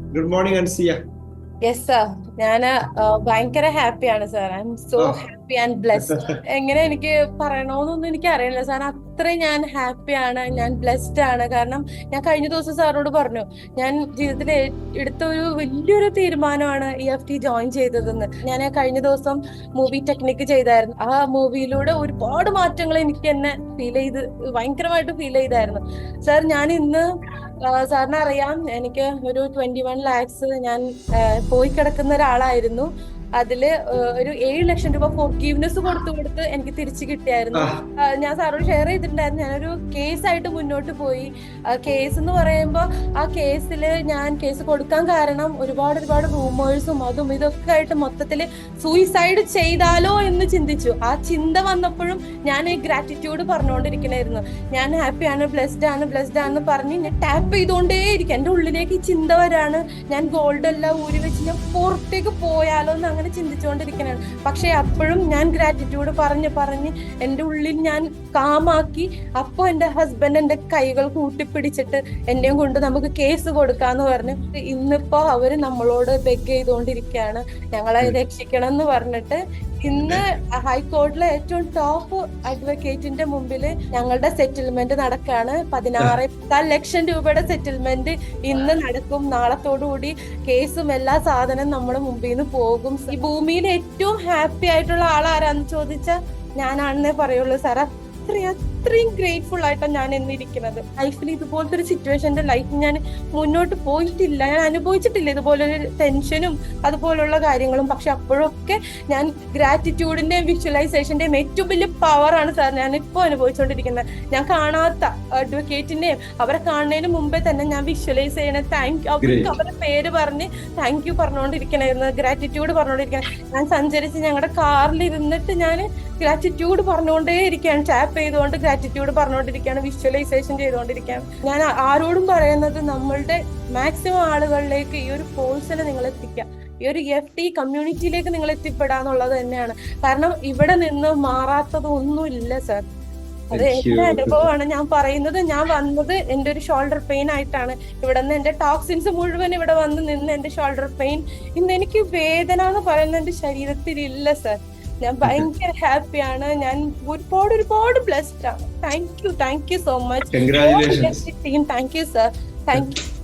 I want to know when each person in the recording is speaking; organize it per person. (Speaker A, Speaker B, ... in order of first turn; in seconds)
Speaker A: 0.1-1.0, 6.0-6.4, 37.5-37.9, 119.2-119.6, 143.5-144.5, 160.3-161.2
Speaker B: 1.7-27.0, 27.6-32.9, 33.4-142.8, 143.5-163.0